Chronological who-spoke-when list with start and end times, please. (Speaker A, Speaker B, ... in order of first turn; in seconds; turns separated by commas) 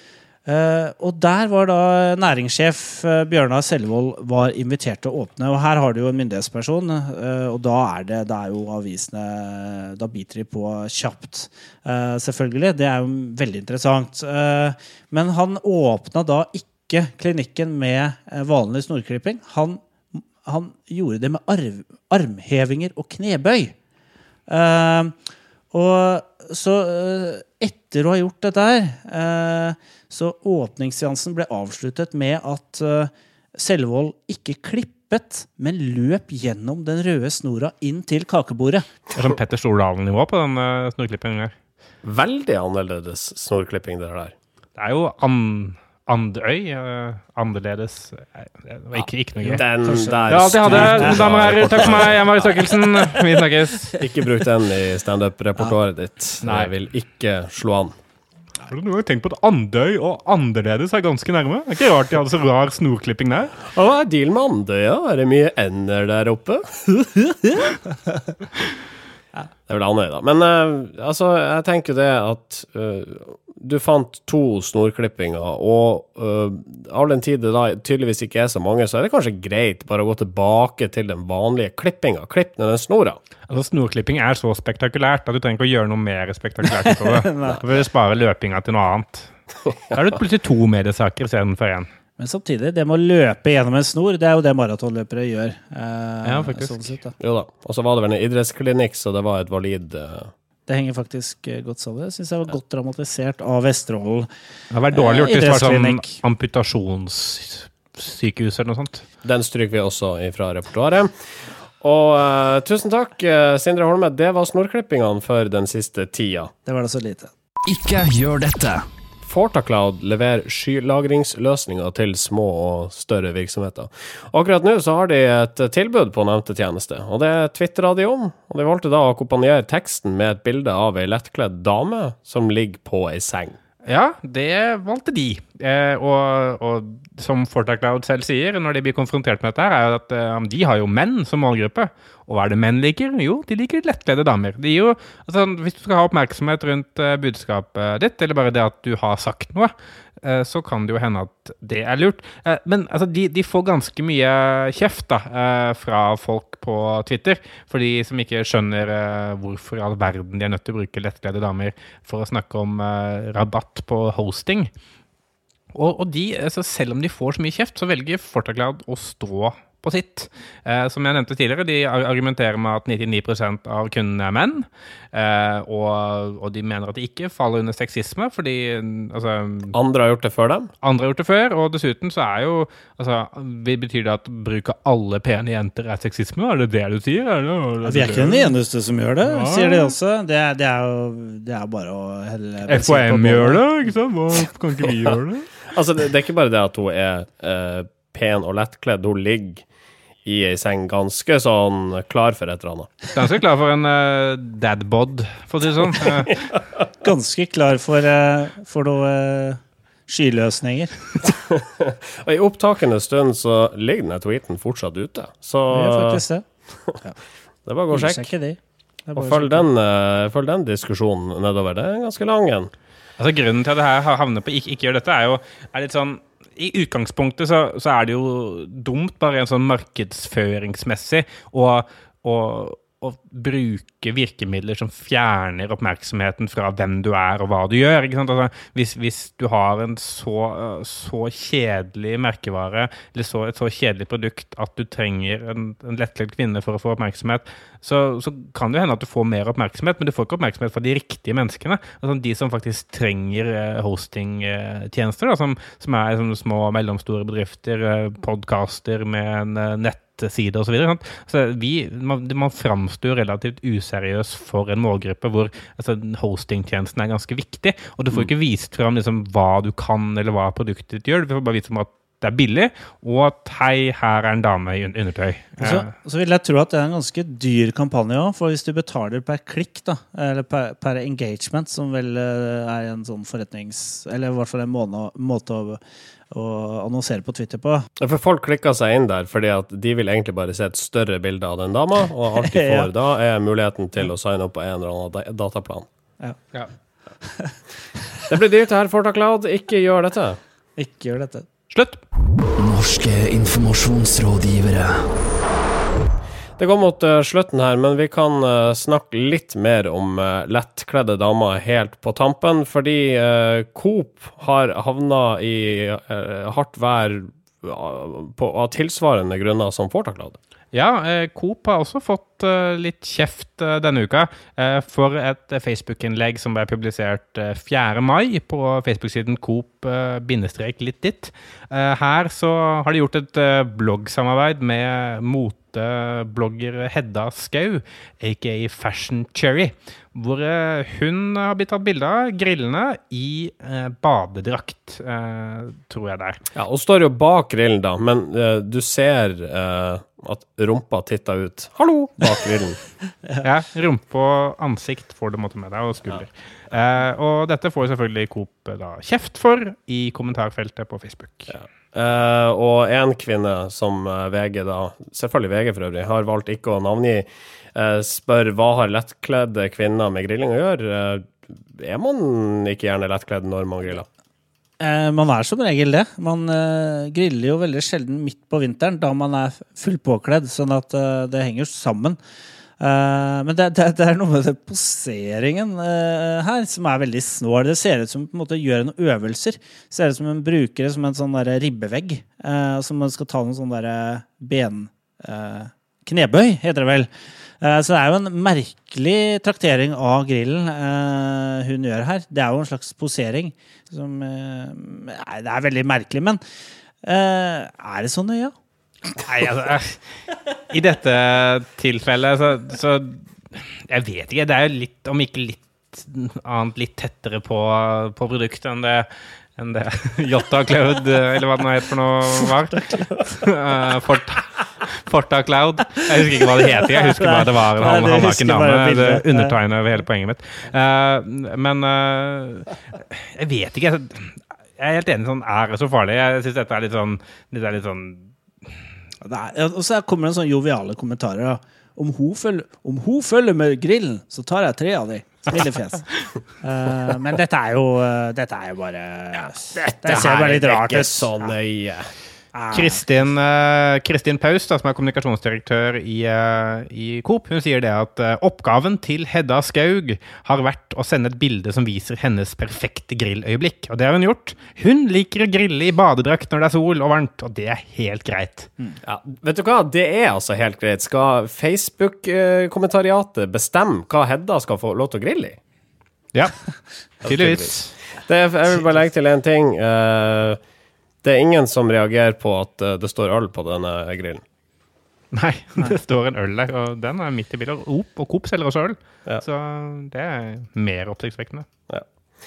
Speaker A: 0.5-23.8, Speaker A: 24.5-25.1, Speaker A: 25.7-38.9, Speaker B: 39.1-41.5, Speaker C: 42.0-44.3, Speaker B: 44.8-49.7, Speaker C: 49.0-52.8, Speaker A: 49.4-51.5, Speaker B: 50.2-54.0, Speaker C: 54.0-58.0, Speaker B: 56.4-56.7, Speaker B: 58.7-63.6, Speaker C: 63.7-66.9, Speaker C: 69.7-83.2, Speaker B: 83.5-89.3, Speaker A: 87.1-87.6, Speaker C: 89.7-90.2, Speaker B: 89.9-91.9, Speaker A: 92.2-97.1, Speaker B: 96.2-96.9, Speaker C: 97.2-100.3, Speaker A: 100.7-104.3, Speaker B: 104.7-109.0, Speaker A: 104.9-106.2, Speaker C: 109.2-111.1, Speaker C: 111.8-116.5, Speaker A: 116.7-117.3, Speaker D: 117.7-118.8, Speaker C: 119.2-133.6, Speaker B: 133.8-164.7, Speaker B: 165.7-179.7, Speaker C: 179.7-180.7, Speaker B: 180.8-188.6, Speaker A: 187.8-193.6, Speaker B: 189.2-189.9, Speaker B: 192.7-195.5, Speaker C: 195.7-199.6, Speaker C: 200.2-203.0, Speaker B: 203.1-206.4, Speaker C: 206.5-206.8, Speaker A: 207.0-210.9, Speaker C: 211.3-216.2, Speaker A: 215.7-216.4, Speaker C: 217.7-218.3, Speaker A: 217.9-219.7, Speaker C: 219.2-222.7, Speaker B: 223.2-275.9, Speaker A: 275.6-285.8, Speaker A: 286.3-287.9, Speaker C: 288.0-295.9, Speaker A: 292.4-292.9, Speaker C: 298.3-300.4, Speaker A: 300.8-301.4, Speaker B: 301.7-302.0, Speaker D: 302.6-305.1, Speaker C: 306.6-320.4, Speaker B: 320.7-346.4, Speaker C: 346.5-352.8, Speaker B: 353.4-361.5, Speaker C: 361.5-374.1, Speaker A: 374.8-382.2, Speaker A: 382.8-397.1, Speaker A: 397.6-406.4, Speaker A: 407.0-408.5, Speaker B: 409.1-410.0, Speaker B: 410.7-438.3, Speaker A: 422.8-423.2, Speaker A: 427.0-429.5, Speaker A: 439.2-446.1, Speaker A: 446.6-451.4, Speaker C: 449.9-452.1, Speaker A: 452.5-453.2, Speaker B: 452.7-468.7, Speaker C: 469.0-475.6, Speaker B: 476.3-477.9, Speaker C: 477.2-480.6, Speaker C: 481.2-484.4, Speaker B: 485.3-491.7